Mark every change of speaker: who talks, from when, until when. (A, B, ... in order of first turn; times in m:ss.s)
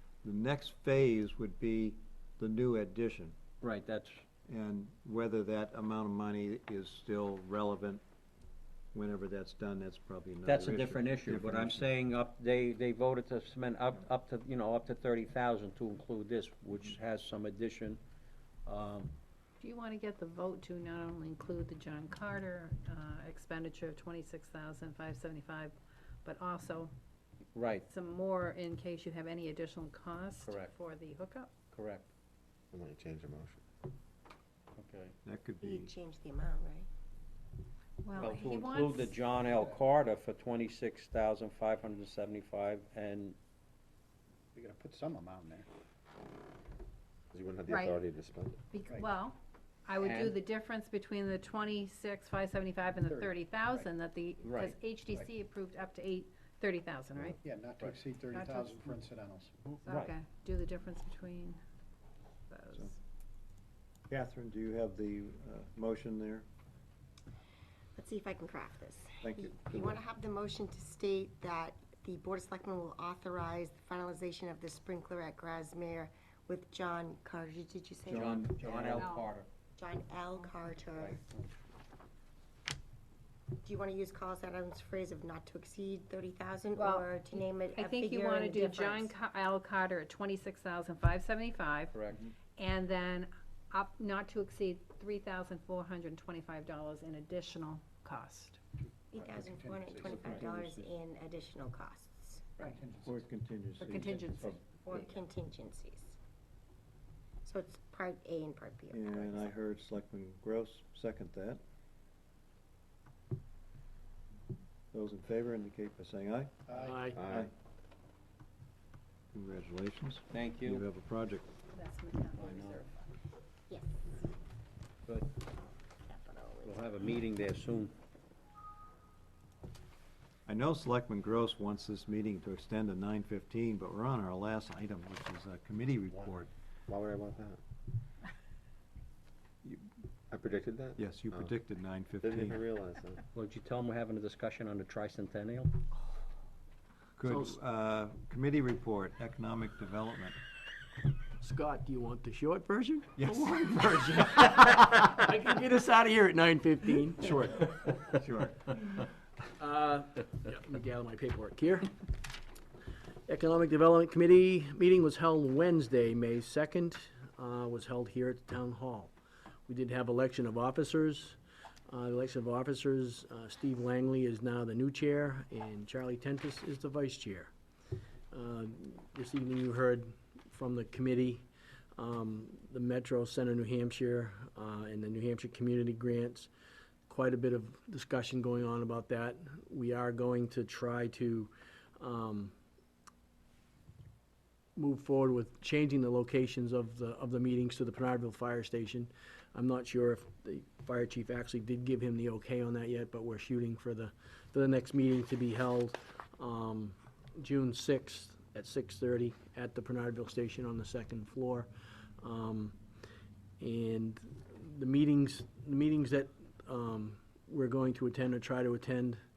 0:00.2-0:03.4 A
0:03.6-0:04.2 B
0:04.5-0:08.0 A
0:08.9-0:11.9 A
0:10.4-0:18.0 B
0:18.6-0:19.1 B
0:19.6-0:26.9 C
0:27.5-0:27.8 B
0:27.9-0:31.6 C
0:30.4-0:30.7 B
0:31.7-0:32.0 B
0:32.7-0:33.6 D
0:34.8-0:35.1 B
0:35.2-0:35.9 A
0:35.6-0:36.9 E
0:38.0-0:39.2 C
0:38.1-0:43.4 B
0:39.4-0:39.8 F
0:44.5-0:45.7 F
0:47.3-0:48.6 D
0:47.7-0:48.0 C
0:48.7-0:57.4 C
0:50.0-0:50.4 B
0:53.0-0:53.9 F
0:54.4-0:54.7 B
0:57.4-0:59.6 F
0:57.8-0:58.0 B
0:58.3-0:59.0 C
0:59.8-1:01.6 C
0:59.8-1:00.1 B
1:02.5-1:02.9 C
1:04.1-1:06.5 A
1:08.0-1:18.8 E
1:09.2-1:10.0 A
1:18.1-1:19.4 B
1:18.1-1:19.0 A
1:19.0-1:19.3 C
1:19.8-1:21.2 E
1:21.0-1:21.5 B
1:23.6-1:29.1 E
1:26.8-1:27.2 C
1:27.7-1:32.0 C
1:31.9-1:32.2 B
1:32.6-1:38.6 C
1:39.1-1:42.5 E
1:39.1-1:40.4 F
1:40.2-1:40.6 B
1:42.6-1:43.3 F
1:43.0-1:44.6 A
1:43.8-1:45.1 C
1:44.8-1:46.2 E
1:47.4-1:49.5 E
1:48.9-1:51.6 A
1:54.9-1:56.6 A
1:56.7-1:57.0 F
1:56.8-1:57.2 G
1:57.1-1:57.4 D
1:57.2-1:57.5 A
1:59.3-2:01.4 A
2:00.3-2:00.8 B
2:01.7-2:03.0 C
2:02.4-2:02.8 B
2:03.7-2:04.3 E
2:06.1-2:07.0 E
2:06.6-2:07.9 B
2:10.4-2:16.5 A
2:16.1-2:17.6 D
2:19.6-2:19.9 A
2:20.3-2:21.5 D
2:21.0-2:22.6 A
2:22.2-2:23.2 D
2:23.3-2:25.7 B
2:27.2-2:30.4 A
2:27.3-2:27.6 G
2:31.4-2:37.3 G
2:33.2-2:34.7 A
2:37.2-2:38.8 A
2:39.6-2:42.0 G
2:43.3-2:49.1 G
2:49.7-2:57.5 G
2:58.3-3:06.5 G
3:07.1-3:12.5 G
3:14.8-3:32.8 G
3:33.6-3:39.2 G